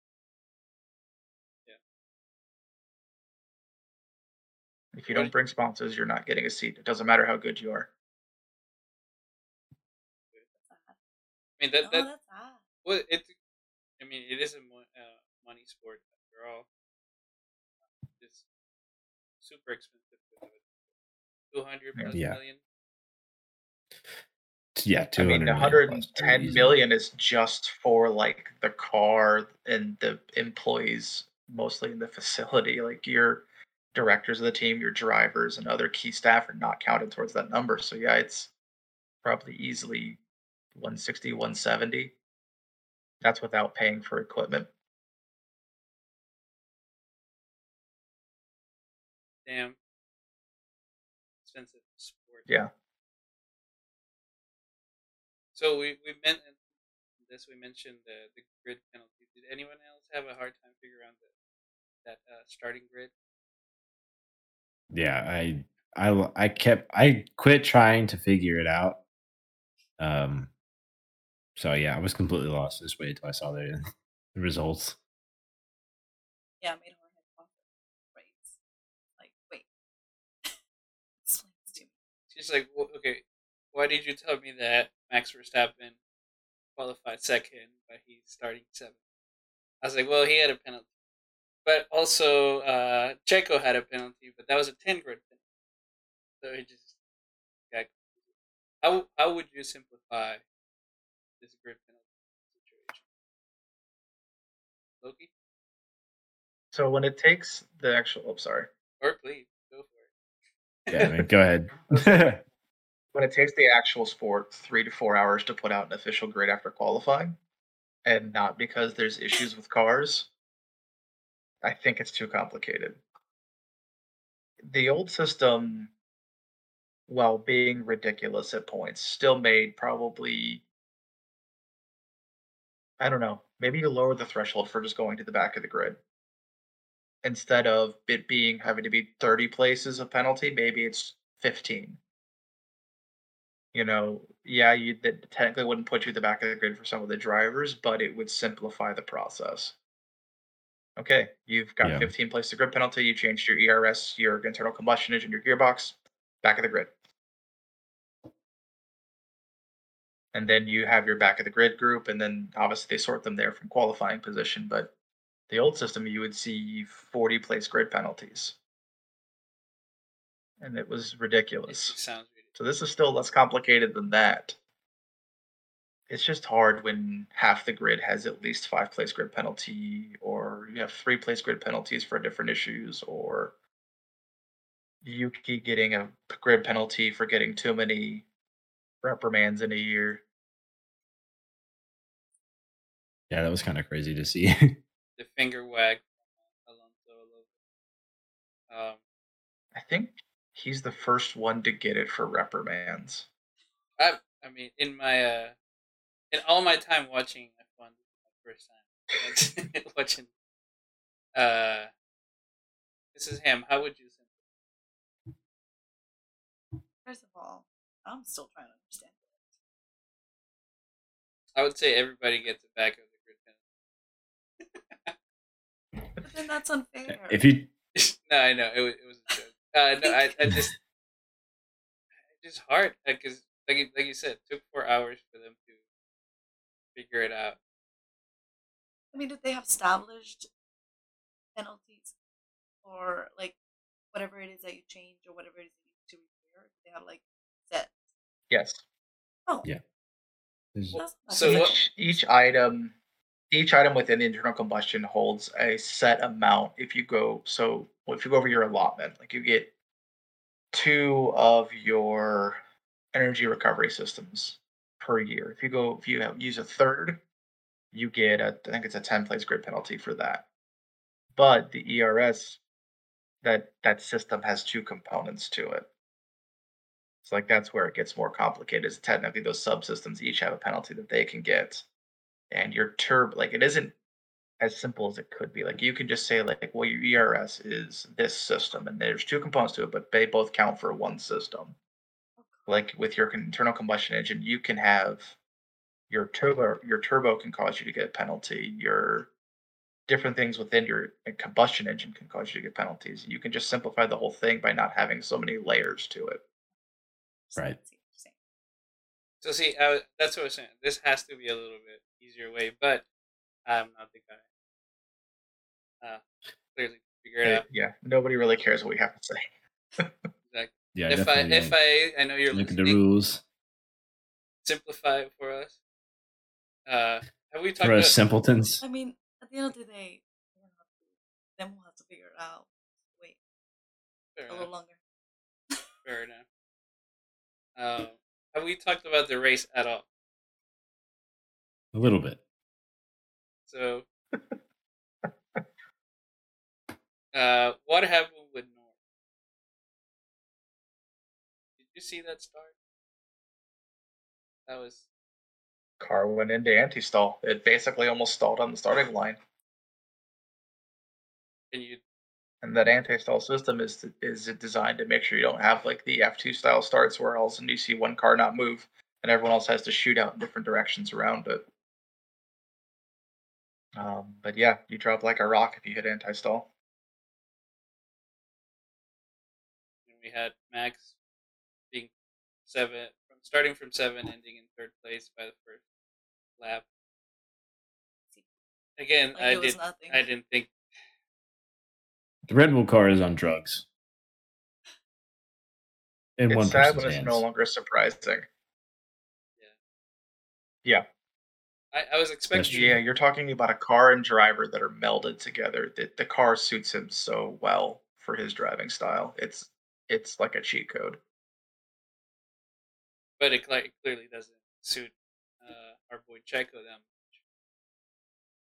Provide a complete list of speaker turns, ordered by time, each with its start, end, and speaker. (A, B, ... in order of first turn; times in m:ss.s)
0:04.9-0:07.9 A
0:10.5-0:11.0 B
0:11.6-0:12.1 C
0:11.8-0:12.6 B
0:12.8-0:13.3 C
0:14.0-0:16.7 C
0:18.1-0:18.4 C
0:19.4-0:20.8 C
0:21.5-0:22.6 C
0:22.1-0:22.4 D
0:24.8-0:26.8 D
0:25.2-0:38.5 A
0:39.2-0:40.2 A
0:40.7-0:42.1 A
0:43.2-0:44.7 A
0:49.4-0:49.8 C
0:51.4-0:52.5 C
0:55.5-0:56.6 C
0:57.2-1:01.3 C
1:02.0-1:03.1 C
1:04.9-1:09.0 D
1:10.0-1:10.5 D
1:11.6-1:13.8 D
1:14.3-1:15.0 D
1:16.6-1:17.6 B
1:18.1-1:18.6 B
1:19.2-1:19.7 B
1:21.2-1:21.9 B
1:22.3-1:26.0 C
1:26.8-1:29.0 C
1:29.8-1:30.8 C
1:31.6-1:35.4 C
1:36.4-1:37.0 C
1:37.7-1:38.2 C
1:38.8-1:40.4 C
1:41.4-1:43.0 C
1:45.0-1:45.3 C
1:46.7-1:48.7 A
1:49.0-1:50.1 C
1:50.9-1:51.2 C
1:50.9-1:52.4 D
1:51.9-1:52.4 A
1:53.1-1:57.4 A
1:58.0-2:00.3 A
2:01.6-2:03.0 A
2:04.6-2:05.9 A
2:07.1-2:10.6 A
2:13.0-2:16.0 A
2:17.2-2:22.0 A
2:23.7-2:29.7 A
2:31.0-2:36.9 A
2:31.8-2:32.1 D
2:40.3-2:44.9 A
2:45.5-2:48.6 A
2:50.6-2:51.9 A
2:51.7-2:52.5 C
2:52.5-2:54.6 A
2:56.1-3:03.5 A
3:05.0-3:08.2 A
3:09.0-3:10.2 A
3:13.3-3:14.7 D
3:15.2-3:17.5 C
3:18.7-3:19.0 C
3:19.7-3:23.2 A
3:24.0-3:25.5 C
3:26.3-3:30.3 C
3:31.3-3:31.9 C
3:33.1-3:34.3 C
3:37.0-3:39.4 B
3:41.5-3:43.5 C
3:46.2-3:47.4 B
3:47.3-3:47.7 D
3:48.0-3:50.7 C
3:50.0-3:50.6 B
3:52.3-3:55.8 C
3:56.9-3:57.6 C
3:59.1-4:00.5 B
4:01.5-4:02.1 B
4:02.8-4:03.6 B
4:04.1-4:08.0 B
4:08.5-4:08.8 A
4:10.9-4:11.8 C
4:10.9-4:12.2 B
4:11.4-4:12.9 A
4:13.5-4:19.7 A
4:20.7-4:22.6 A
4:23.1-4:27.2 A
4:27.9-4:30.4 A
4:31.4-4:32.6 A
4:33.4-4:35.9 A
4:37.2-4:41.8 A
4:42.5-4:43.9 A
4:44.6-4:51.8 A
4:52.4-4:52.7 B
4:52.7-4:55.4 A
4:56.1-4:59.3 A
5:00.1-5:06.4 A
5:07.5-5:08.3 B
5:09.4-5:13.0 C
5:13.6-5:14.4 C
5:16.7-5:17.6 C
5:17.4-5:19.4 A
5:20.5-5:23.0 C
5:20.9-5:21.8 D
5:22.5-5:23.4 D
5:24.6-5:25.8 C
5:26.8-5:28.2 C
5:27.8-5:28.8 D
5:28.8-5:31.0 B
5:31.6-5:33.4 B
5:34.4-5:34.7 C
5:34.5-5:35.0 B
5:36.0-5:36.4 C
5:37.8-5:40.0 C
5:41.9-5:42.4 D
5:43.6-5:44.1 C
5:47.3-5:48.9 C
5:51.8-5:52.7 C
5:54.7-5:55.0 C
5:56.0-5:59.4 A
6:01.7-6:02.0 C
6:02.6-6:11.6 A
6:14.0-6:16.7 A
6:20.0-6:21.2 C
6:22.6-6:25.8 C
6:26.6-6:26.8 C
6:29.0-6:30.7 C
6:29.3-6:30.2 B
6:32.5-6:33.8 D
6:36.4-6:37.4 D
6:36.5-6:38.5 A
6:41.9-6:43.0 C
6:42.5-6:43.0 D
6:42.6-6:51.2 A
6:53.4-6:57.4 C